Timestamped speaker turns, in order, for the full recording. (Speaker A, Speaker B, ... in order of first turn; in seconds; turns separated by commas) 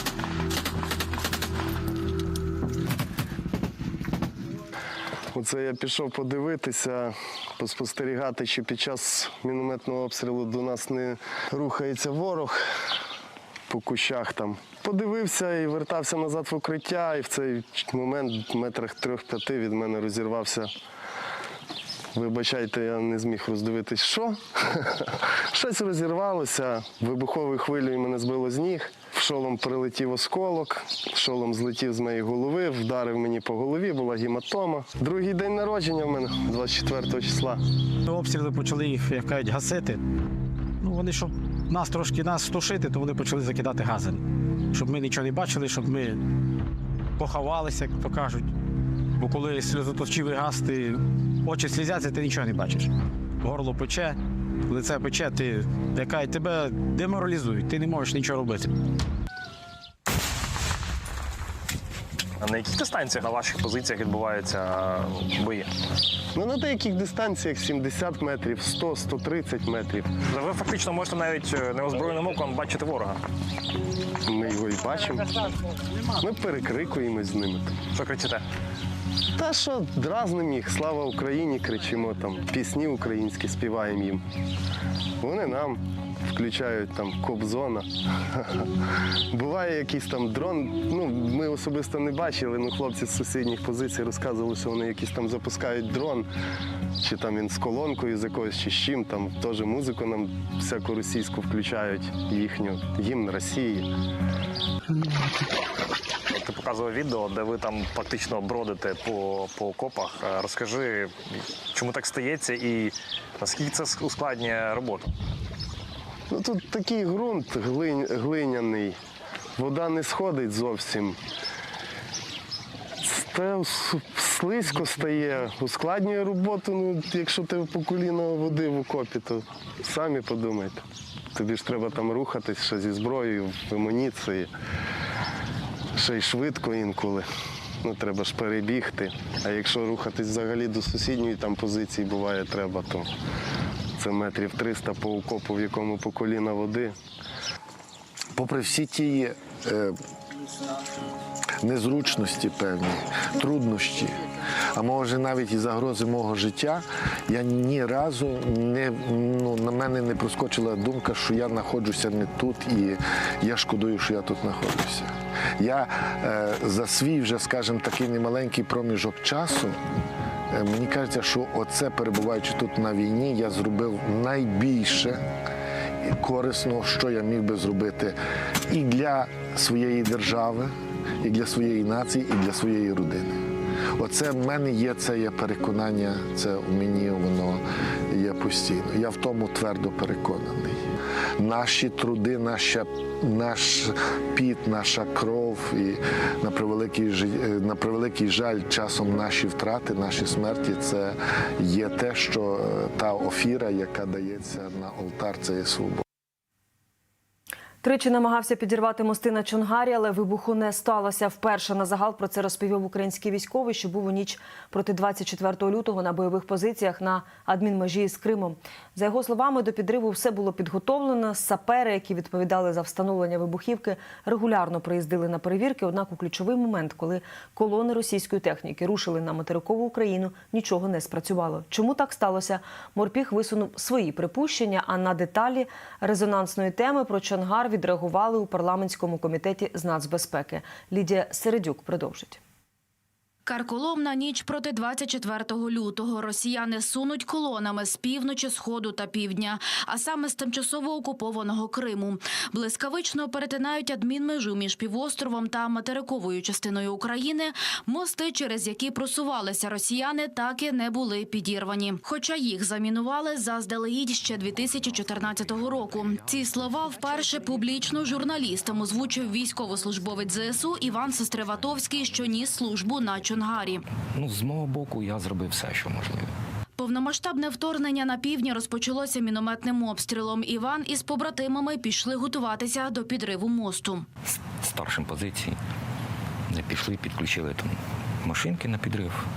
Speaker A: 5.3-12.6, Speaker A: 13.7-20.7, Speaker A: 22.1-37.6, Speaker B: 38.1-40.0, Speaker B: 40.8-46.2, Speaker B: 47.2-48.5, Speaker B: 49.2-52.9, Speaker B: 53.4-54.2, Speaker B: 54.7-58.7, Speaker C: 62.4-65.7, Speaker A: 66.3-70.2, Speaker C: 70.2-73.2, Speaker A: 74.3-75.3, Speaker A: 76.2-77.8, Speaker C: 77.9-78.4, Speaker A: 79.4-84.2, Speaker A: 85.2-88.6, Speaker A: 89.3-96.3, Speaker A: 97.0-103.9, Speaker C: 106.3-115.1, Speaker A: 116.3-119.0, Speaker A: 119.6-121.2, Speaker A: 123.0-130.8, Speaker A: 131.3-134.5, Speaker A: 135.9-137.2, Speaker A: 137.8-143.1, Speaker A: 144.0-146.9, Speaker D: 148.3-149.9, Speaker D: 151.6-169.8, Speaker D: 170.5-175.2, Speaker D: 176.1-178.2, Speaker D: 178.7-183.4, Speaker D: 184.0-190.8, Speaker D: 191.4-206.0, Speaker E: 207.8-242.4, Speaker F: 243.4-273.8, Speaker G: 274.1-276.2, Speaker F: 276.8-284.1, Speaker G: 284.6-285.5, Speaker G: 286.5-289.2